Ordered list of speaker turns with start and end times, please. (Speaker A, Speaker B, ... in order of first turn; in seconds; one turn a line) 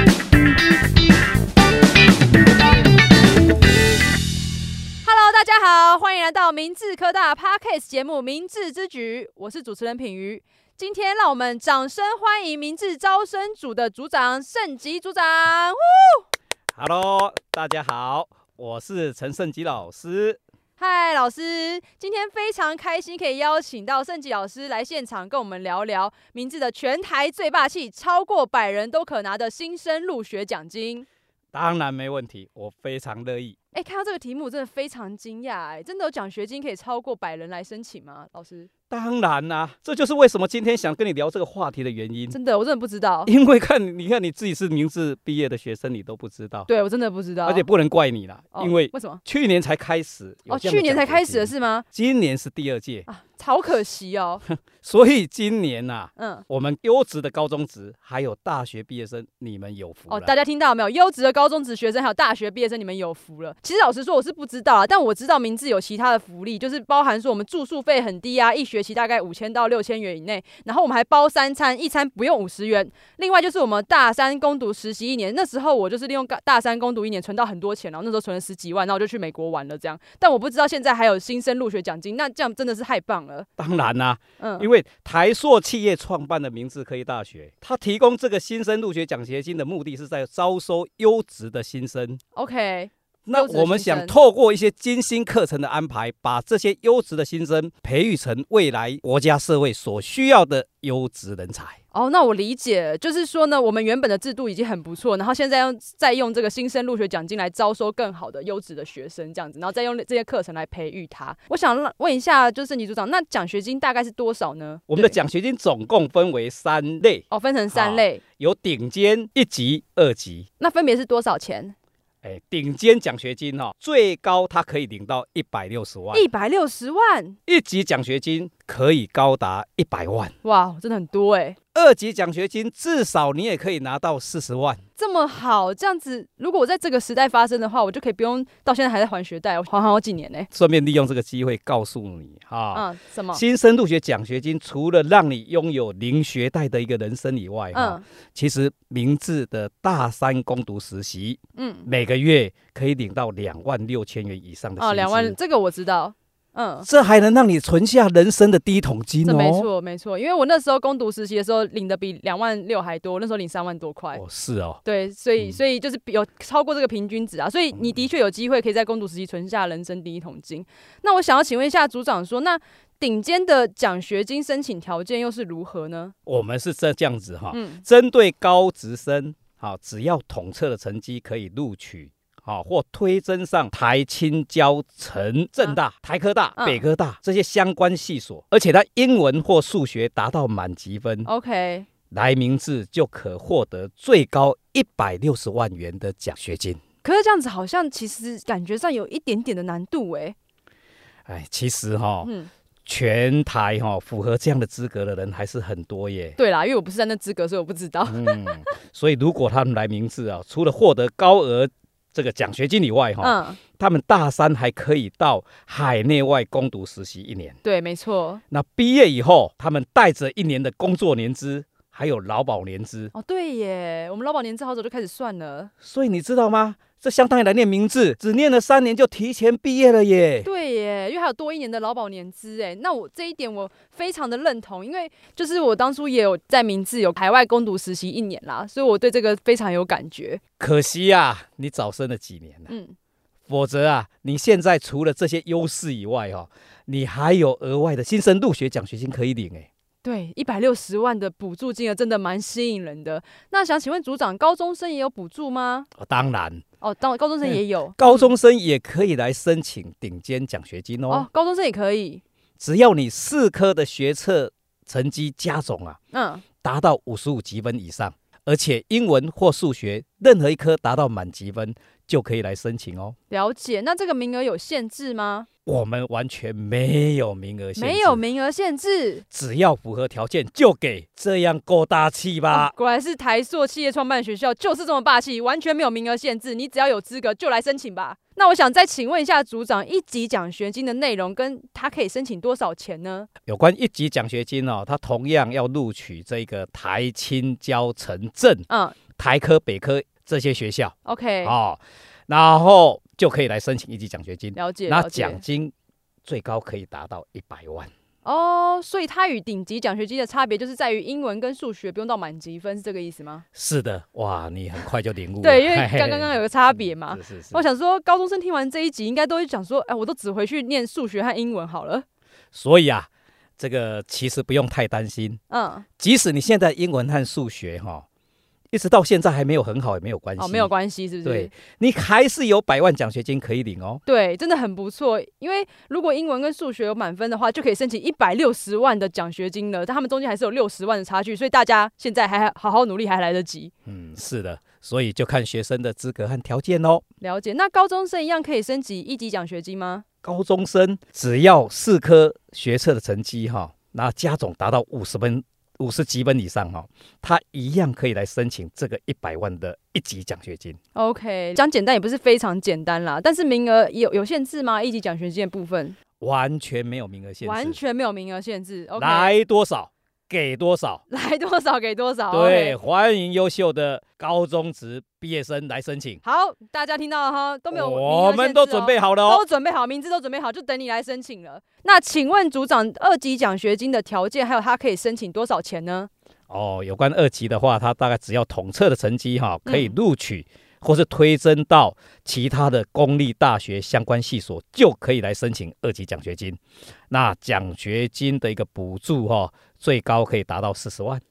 Speaker A: 5.0-16.2
Speaker B: 16.8-20.4
Speaker A: 20.8-31.1
Speaker B: 31.5-33.5
Speaker A: 33.7-38.7
Speaker B: 38.9-42.4
Speaker A: 42.3-43.3
Speaker B: 43.2-46.7
Speaker A: 46.7-47.7
Speaker B: 47.4-53.1
Speaker A: 48.5-49.2
Speaker A: 50.5-51.8
Speaker A: 53.0-54.4
Speaker B: 54.5-60.3
Speaker A: 56.2-56.4
Speaker A: 60.1-83.5
Speaker B: 83.6-92.2
Speaker A: 84.4-84.7
Speaker A: 92.3-94.1
Speaker B: 93.2-101.8
Speaker A: 101.9-115.1
Speaker B: 114.9-120.5
Speaker A: 117.3-118.2
Speaker A: 120.6-121.7
Speaker B: 122.2-126.2
Speaker A: 126.1-127.4
Speaker B: 127.5-130.3
Speaker A: 130.4-131.6
Speaker B: 131.7-134.8
Speaker A: 135.0-140.5
Speaker B: 140.5-155.4
Speaker A: 142.7-143.4
Speaker A: 147.7-148.0
Speaker A: 151.6-151.9
Speaker A: 154.8-156.9
Speaker B: 156.8-159.7
Speaker A: 159.2-164.2
Speaker B: 164.1-164.8
Speaker A: 164.8-176.1
Speaker B: 176.2-191.3
Speaker A: 177.5-177.8
Speaker A: 186.6-186.8
Speaker A: 191.2-191.9
Speaker B: 192.1-196.8
Speaker A: 197.0-200.3
Speaker B: 201.3-202.3
Speaker A: 202.2-202.5
Speaker B: 202.8-206.4
Speaker A: 206.4-208.7
Speaker B: 208.1-217.6
Speaker A: 213.2-213.6
Speaker A: 217.6-218.4
Speaker B: 218.5-223.1
Speaker A: 223.1-225.7
Speaker B: 225.8-230.5
Speaker A: 230.4-240.4
Speaker B: 240.6-242.7
Speaker A: 242.7-242.9
Speaker B: 243.5-249.7
Speaker A: 250.0-255.9
Speaker B: 255.9-256.6
Speaker A: 256.8-258.3
Speaker B: 257.4-261.3
Speaker A: 261.1-262.2
Speaker B: 262.6-266.0
Speaker A: 266.1-266.4
Speaker B: 266.6-273.1
Speaker A: 273.3-275.5
Speaker B: 275.6-278.2
Speaker A: 277.8-279.2
Speaker B: 279.3-282.7
Speaker A: 282.5-293.3
Speaker B: 293.4-305.7
Speaker A: 298.7-299.0
Speaker A: 301.0-301.5
Speaker A: 304.5-305.4
Speaker B: 306.2-307.9
Speaker A: 308.2-313.4
Speaker B: 313.5-317.6
Speaker A: 315.4-322.0
Speaker B: 322.5-325.4
Speaker A: 325.5-325.9
Speaker B: 326.0-328.0
Speaker B: 328.7-330.7
Speaker A: 330.4-331.5
Speaker B: 331.2-334.0
Speaker A: 334.1-343.7
Speaker B: 343.9-347.0
Speaker A: 347.2-350.0
Speaker B: 350.2-360.8
Speaker A: 360.9-365.9
Speaker B: 366.2-367.8
Speaker A: 367.4-369.3
Speaker B: 369.0-371.0
Speaker A: 371.1-372.8
Speaker B: 372.3-376.2
Speaker A: 376.2-386.1
Speaker B: 377.7-379.4
Speaker B: 386.5-396.6
Speaker A: 389.6-389.9
Speaker B: 397.1-401.2